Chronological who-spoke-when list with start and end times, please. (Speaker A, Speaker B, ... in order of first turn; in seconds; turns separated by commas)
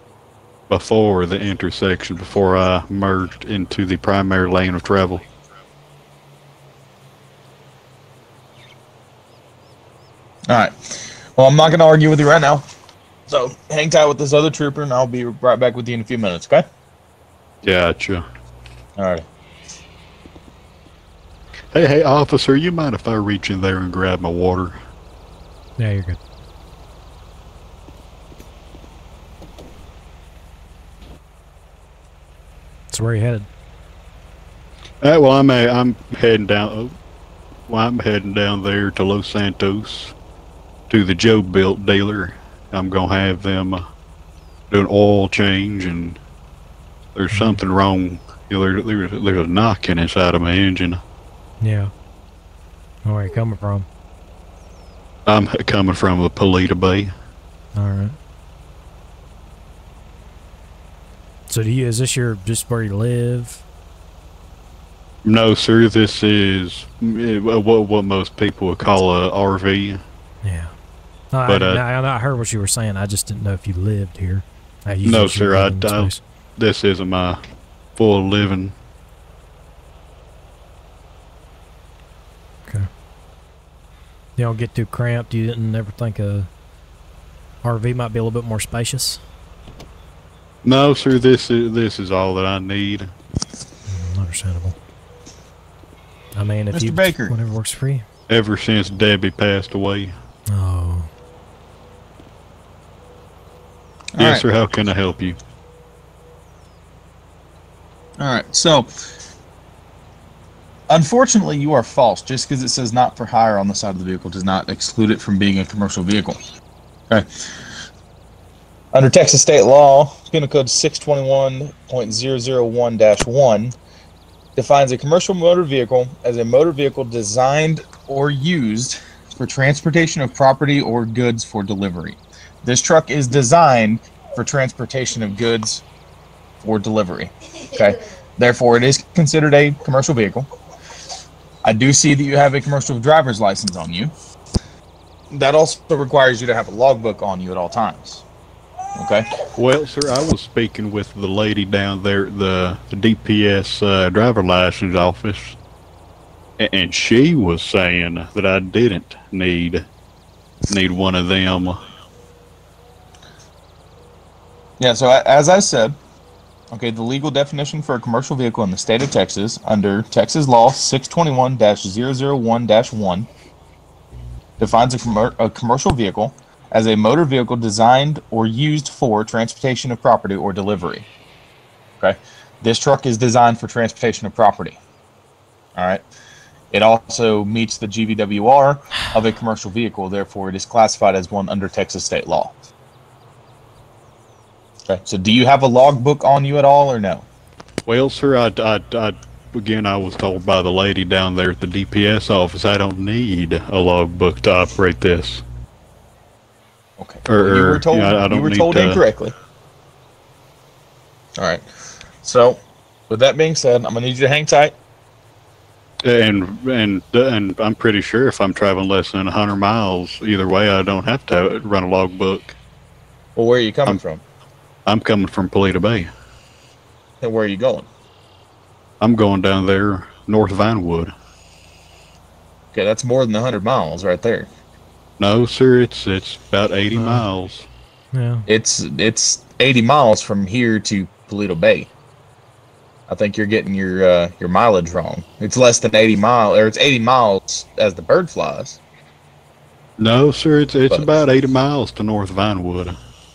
Speaker A: 0.7-5.2, Speaker B: 10.5-12.7, Speaker B: 13.3-16.7, Speaker A: 17.6-18.3, Speaker B: 19.0-19.3, Speaker A: 21.7-24.8, Speaker C: 25.8-26.2, Speaker C: 32.9-33.5, Speaker A: 35.0-37.0, Speaker A: 37.7-40.1, Speaker A: 40.9-43.9, Speaker A: 44.7-46.2, Speaker A: 47.1-51.0, Speaker C: 47.3-47.6, Speaker C: 51.6-51.9, Speaker C: 53.0-53.9, Speaker A: 55.3-57.1, Speaker C: 57.8-58.2, Speaker C: 61.5-63.6, Speaker A: 65.2-70.0, Speaker C: 70.4-70.8, Speaker C: 71.3-76.2, Speaker A: 71.5-71.8, Speaker A: 75.0-77.4, Speaker A: 78.0-78.8, Speaker C: 84.4-86.5, Speaker C: 87.6-89.2, Speaker A: 90.6-93.1, Speaker C: 93.9-94.8, Speaker C: 96.4-98.0, Speaker B: 96.7-97.4, Speaker A: 98.3-100.1, Speaker C: 100.5-101.1, Speaker B: 104.2-104.5, Speaker A: 104.2-105.4, Speaker B: 108.2-108.9, Speaker B: 110.9-116.4, Speaker B: 118.9-123.8, Speaker B: 124.6-135.8, Speaker B: 136.6-140.5, Speaker B: 141.6-144.1, Speaker B: 145.3-148.2, Speaker B: 149.0-149.3, Speaker A: 149.6-155.6, Speaker A: 156.6-159.8, Speaker A: 160.7-161.8, Speaker B: 164.8-166.0, Speaker B: 166.7-173.3, Speaker B: 174.6-181.1, Speaker B: 182.0-184.8, Speaker B: 185.8-186.0, Speaker B: 186.7-192.6, Speaker B: 194.9-197.3, Speaker A: 197.9-205.4, Speaker B: 207.0-209.3, Speaker A: 207.3-209.0, Speaker B: 211.4-211.7, Speaker B: 212.2-214.8, Speaker A: 216.0-222.6, Speaker B: 223.4-224.2, Speaker A: 224.9-226.1, Speaker B: 227.2-227.9, Speaker A: 229.0-231.1, Speaker B: 232.7-234.5, Speaker A: 235.2-237.7, Speaker C: 236.9-237.3, Speaker C: 238.1-238.5, Speaker B: 238.5-241.9, Speaker B: 243.1-248.8, Speaker A: 250.0-253.0